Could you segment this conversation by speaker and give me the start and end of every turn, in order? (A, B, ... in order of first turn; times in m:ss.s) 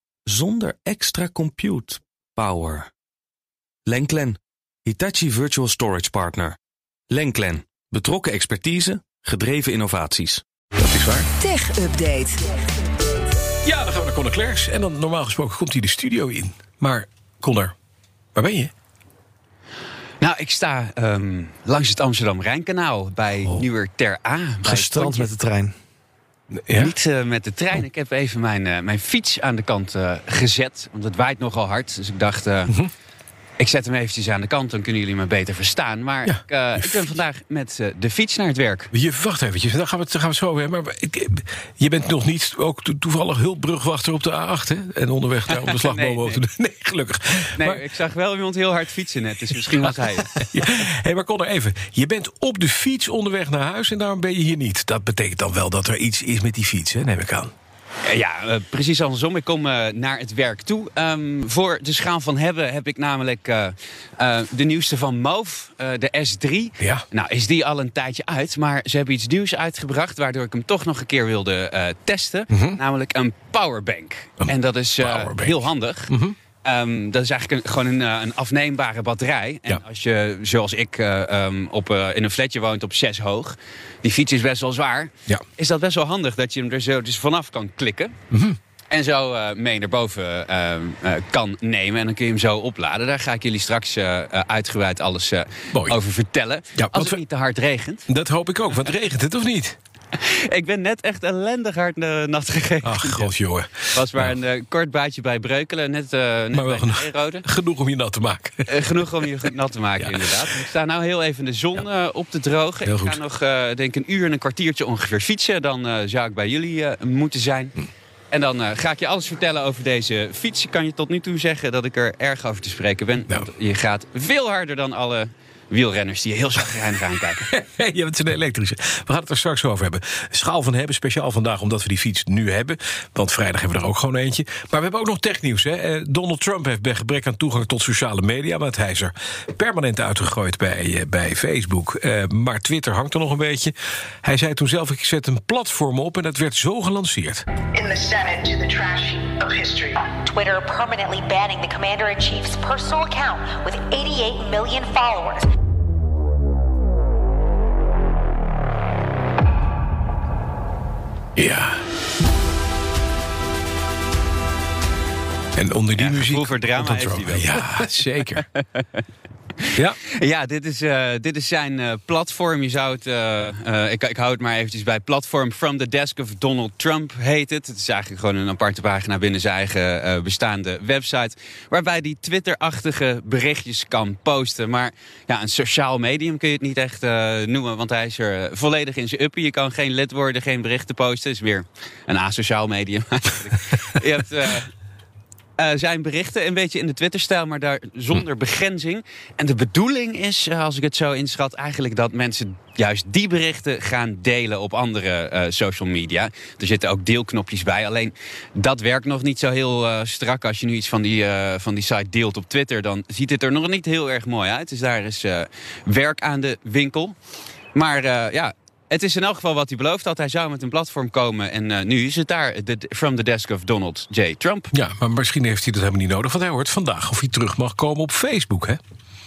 0:00.3-0:02.9 A
0:03.8-0:06.6 A
0:07.1-0:10.4 A
0:10.8-0:11.3 B
0:11.4-0:12.3 C
0:13.6-0:17.7 B
0:18.3-0:18.7 B
0:20.2-0:25.4 D
0:26.7-0:26.9 B
0:26.8-0:32.7 D
0:33.6-0:38.9 D
0:36.2-0:37.1 B
0:38.9-0:47.8 B
0:45.5-0:46.5 D
0:47.6-0:50.6 D
0:49.6-0:57.5 B
0:58.0-1:28.1 D
1:12.5-1:12.8 B
1:14.4-1:16.3 B
1:28.3-1:28.6 B
1:28.9-1:38.1 D
1:35.7-1:36.0 B
1:36.8-1:37.2 B
1:38.1-1:39.8 B
1:40.1-1:43.3 D
1:42.8-1:44.4 B
1:43.8-1:47.4 D
1:46.5-1:49.4 B
1:48.7-1:57.8 D
1:50.0-1:50.5 B
1:52.8-1:53.2 B
1:58.3-2:07.5 D
2:07.4-2:27.4 B
2:27.8-2:30.1 E
2:30.2-2:35.4 C
2:41.4-2:41.8 B
2:45.6-2:48.4 B
2:45.9-2:49.0 D
2:49.6-3:14.7 D
2:49.7-2:50.0 B
3:15.6-3:37.2 D
3:37.7-3:44.7 D
3:44.7-3:48.8 B